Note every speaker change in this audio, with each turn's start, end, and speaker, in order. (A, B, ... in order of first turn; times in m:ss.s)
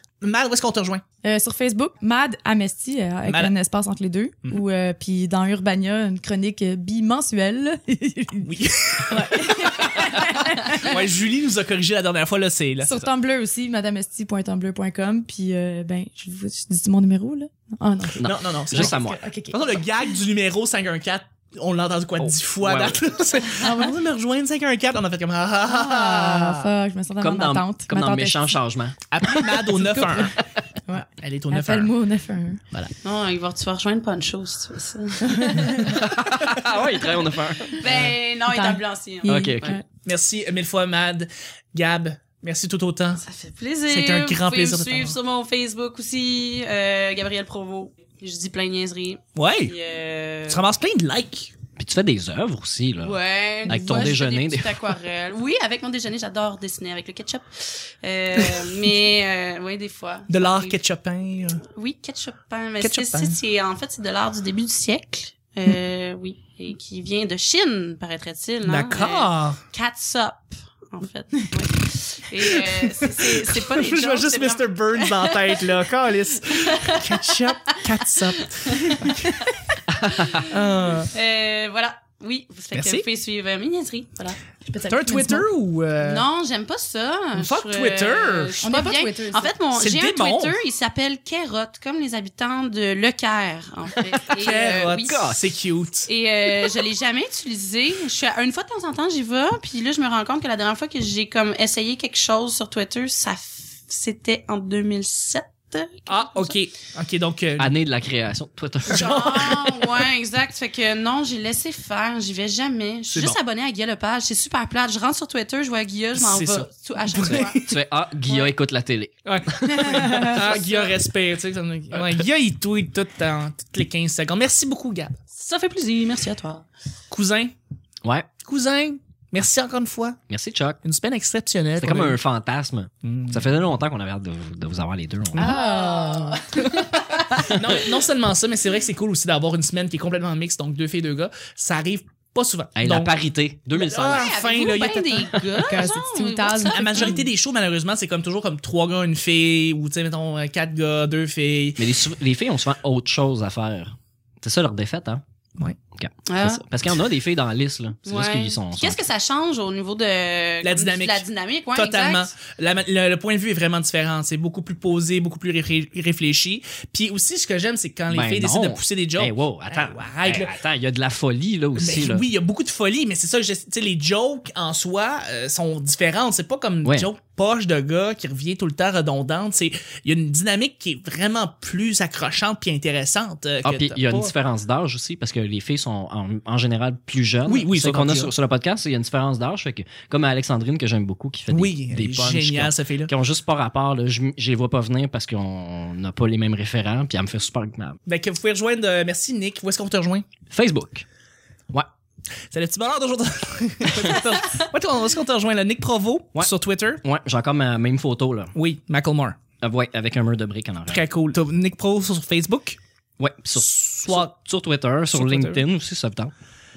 0:00.2-0:01.0 A
0:01.2-0:08.5 B
0:03.3-0:03.5 A
0:08.4-0:13.1 A
0:09.0-0:11.0 B
0:12.8-0:19.6 B
0:18.2-0:19.2 C
0:18.2-0:26.7 A
0:22.2-0:23.1 C
0:23.6-0:24.0 B
0:25.6-0:28.6 B
0:27.2-0:29.0 C
0:29.1-0:30.4 A
0:29.4-0:32.6 B
0:31.2-0:31.9 A
0:33.0-0:36.0 D
0:35.2-0:35.9 B
0:35.9-0:37.9 C
0:36.8-0:39.8 D
0:38.5-0:39.8 B
0:39.2-0:39.7 C
0:40.0-0:43.2 A
0:43.2-0:50.6 D
0:43.9-0:45.2 A
0:49.4-0:49.7 A
0:50.5-0:51.5 A
0:51.8-0:54.8 C
0:53.0-1:00.8 D
1:00.3-1:01.6 A
1:01.7-1:19.5 D
1:02.8-1:03.4 A
1:08.6-1:09.6 A
1:12.4-1:19.8 A
1:19.9-1:20.4 C
1:20.0-1:20.5 D
1:20.4-1:21.1 A
1:21.1-1:24.4 D
1:22.7-1:23.0 A
1:24.6-1:25.5 B
1:24.9-1:26.2 A
1:26.0-1:35.2 D
1:27.3-1:28.6 A
1:28.6-1:29.5 B
1:29.8-1:30.6 A
1:34.3-1:36.1 A
1:35.0-1:35.4 C
1:36.1-1:46.6 D
1:46.1-1:47.7 A
1:47.6-1:49.9 C
1:48.9-1:57.6 D
1:48.9-1:49.2 A
1:53.1-1:53.4 A
1:56.2-1:57.7 A
1:57.3-2:00.4 C
1:59.2-2:05.2 A
1:59.8-2:00.3 B
2:00.3-2:00.9 D
2:05.3-2:06.6 D
2:07.1-2:07.5 A
2:08.4-2:10.2 A
2:10.3-2:10.8 C
2:10.8-2:12.2 A
2:11.8-2:15.6 C
2:13.0-2:13.5 A
2:15.4-2:16.7 B
2:15.4-2:17.4 D
2:16.7-2:23.1 A
2:22.8-2:24.3 C
2:23.7-2:25.9 A
2:24.1-2:27.3 D
2:25.6-2:27.2 B
2:26.7-2:31.8 A
2:31.8-2:35.2 C
2:35.9-2:39.0 C
2:36.3-2:36.6 D
2:38.0-2:42.3 D
2:40.6-2:50.6 A
2:48.1-2:52.2 C
2:51.7-3:04.3 A
3:03.6-3:18.0 C
3:07.5-3:08.3 A
3:11.5-3:13.1 A
3:18.0-3:20.2 A
3:20.5-3:21.0 C
3:22.5-3:27.0 A
3:27.0-3:28.5 C
3:28.5-3:29.4 A
3:29.6-3:31.0 C
3:30.9-3:32.8 A
3:33.2-3:36.3 C
3:33.6-3:34.3 A
3:35.1-3:35.6 A